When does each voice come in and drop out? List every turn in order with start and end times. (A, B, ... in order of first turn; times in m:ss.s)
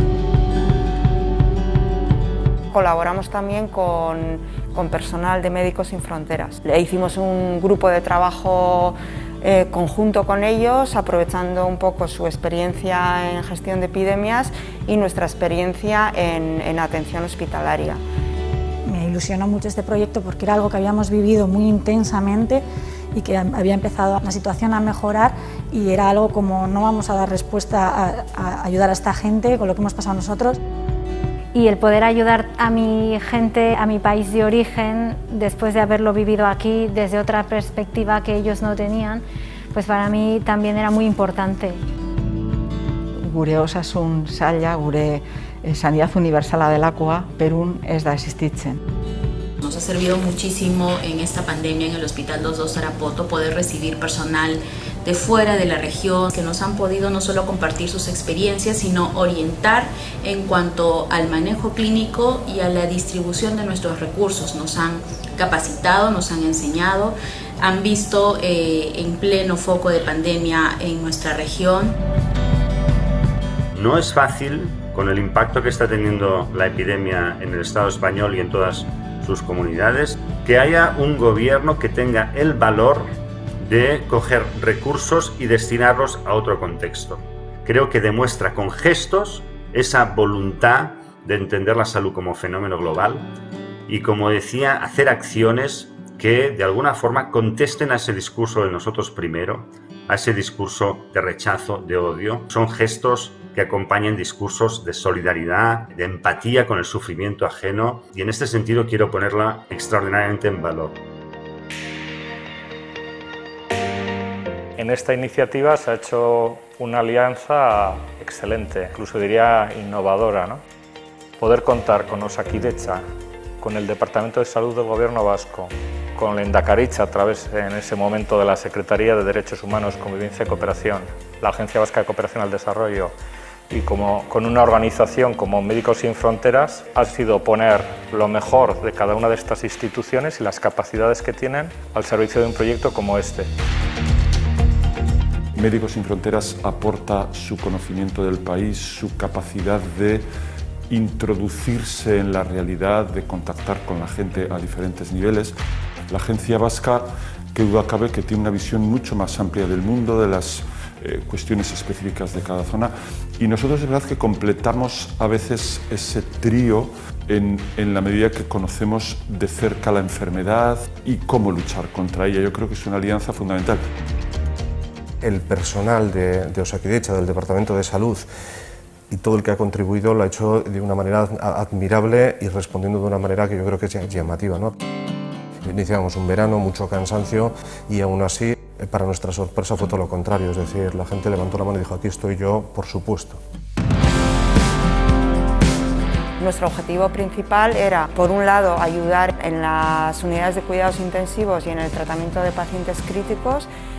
0:02.7-0:18.0 A
0:18.8-0:22.6 B
0:23.1-0:30.6 B
0:31.5-0:41.8 C
0:43.2-0:48.8 D
0:49.6-1:12.0 E
1:13.9-1:14.6 F
1:15.2-1:18.7 F
1:19.5-1:23.0 F
1:23.6-1:27.2 F
1:27.7-1:33.2 F
1:34.0-1:39.6 F
1:40.1-1:50.8 F
1:54.8-2:00.6 G
2:01.4-2:03.0 G
2:03.6-2:13.1 G
2:13.7-2:23.5 G
2:25.5-2:30.2 H
2:30.9-2:35.5 H
2:36.1-2:53.8 H
2:55.2-2:58.3 I
2:59.1-3:04.7 I
3:05.6-3:13.4 I
3:16.4-3:23.7 A